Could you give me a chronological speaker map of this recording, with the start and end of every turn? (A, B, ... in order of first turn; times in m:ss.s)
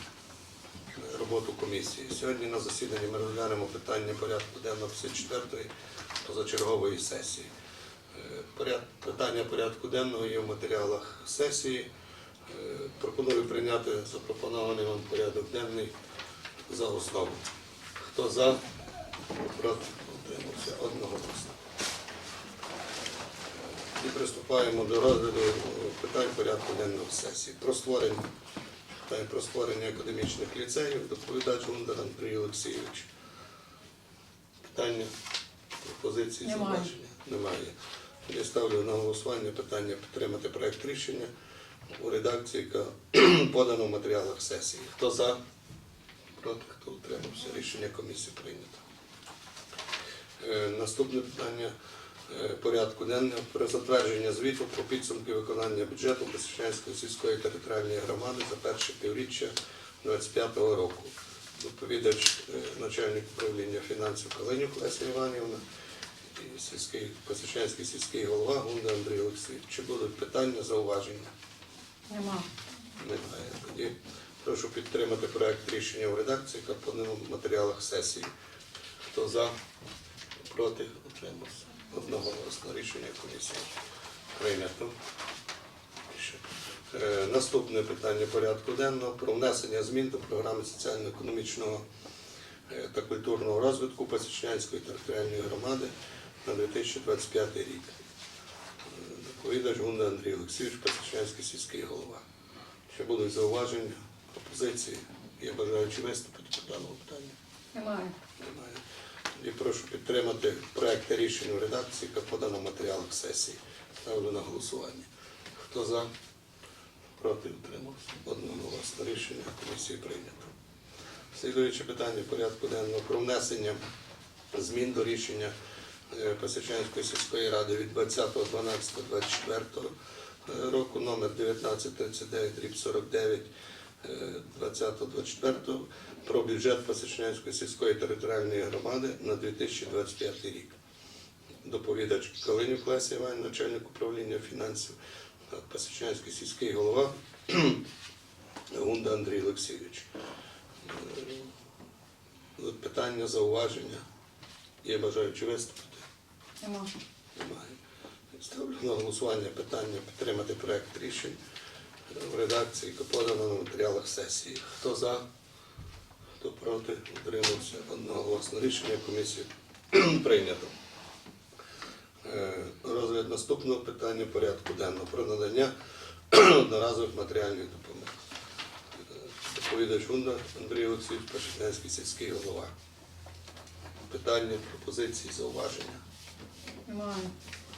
0:00.9-0:05.7 A
0:06.2-0:07.5 A
0:08.1-0:11.9 A
0:12.5-0:15.9 A
0:16.7-0:17.4 A
0:18.0-0:18.6 A
0:19.4-0:21.6 A
0:24.0-0:28.2 A
0:29.0-0:33.1 A
0:34.6-0:35.1 A
0:35.8-0:37.8 A
0:36.4-0:36.9 B
0:38.3-0:41.3 A
0:41.9-0:45.4 A
0:46.4-0:48.8 A
0:50.4-0:51.7 A
0:52.3-1:05.6 A
1:06.3-1:11.3 A
1:12.1-1:12.5 B
1:13.0-1:18.3 A
1:19.1-1:19.5 A
1:20.4-1:23.8 A
1:24.3-1:25.0 A
1:26.1-1:31.8 A
1:32.7-1:35.9 A
1:36.4-1:38.0 A
1:38.9-1:42.2 A
1:42.9-1:47.4 A
1:47.7-1:48.2 B
1:48.4-1:48.8 A
1:49.4-1:55.1 A
1:55.6-1:56.1 A
1:57.2-2:00.5 A
2:01.3-2:03.8 A
2:04.5-2:05.5 A
2:06.1-2:09.9 A
2:10.5-2:13.5 A
2:14.0-2:20.8 A
2:21.6-2:25.0 A
2:25.5-2:27.8 A
2:28.7-2:30.1 A
2:30.8-2:31.5 A
2:32.6-2:34.0 A
2:34.8-2:36.0 A
2:36.6-2:36.9 B
2:37.3-2:37.8 A
2:38.3-2:41.4 A
2:42.1-2:45.2 A
2:46.4-2:50.7 A
2:52.2-2:55.7 A
2:56.3-2:58.2 A
2:59.2-3:02.7 A
3:04.1-3:06.0 A
3:06.9-3:07.3 B